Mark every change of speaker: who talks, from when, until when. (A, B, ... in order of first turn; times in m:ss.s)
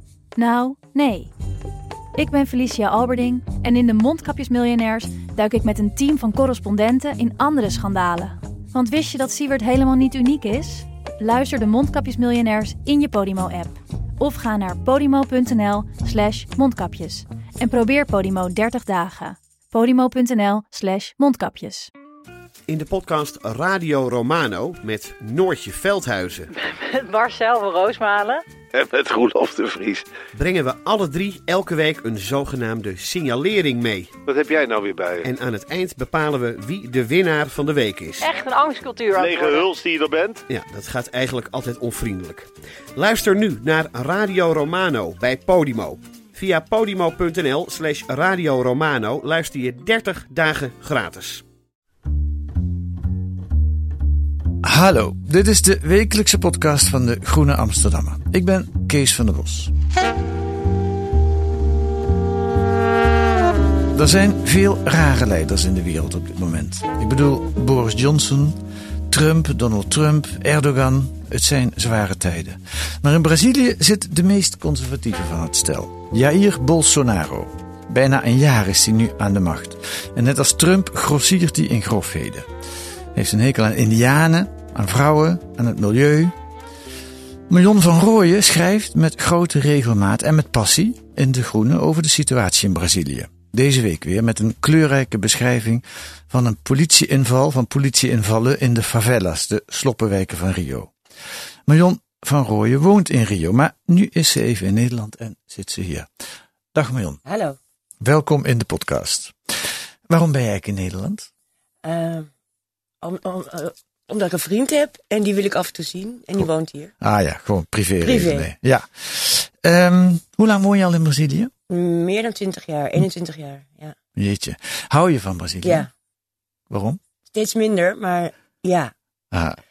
0:00.4-0:01.3 A
0:02.2-0:21.9 A
0:22.7-0:26.5 B
0:26.6-0:28.4 C
0:28.7-0:30.0 D
0:30.3-0:34.1 B
0:34.2-0:35.3 D
0:35.2-0:38.2 B
0:38.2-0:39.8 C
0:39.1-0:40.4 D
0:40.5-0:51.4 B
0:54.6-0:59.7 E
1:03.9-1:08.6 E
1:09.1-1:22.5 E
1:23.1-1:26.3 E
1:27.5-1:40.9 E
1:41.6-1:46.1 E
1:46.7-1:47.2 E
1:47.2-1:47.6 F
1:48.0-1:51.3 E
1:51.8-1:52.3 F
1:53.0-1:56.9 F
1:57.0-2:01.5 E
1:58.0-1:58.5 F
2:01.7-2:04.0 F
2:04.2-2:05.9 E
2:05.6-2:05.9 F
2:06.7-2:07.0 E
2:07.3-2:08.9 F
2:09.3-2:09.6 E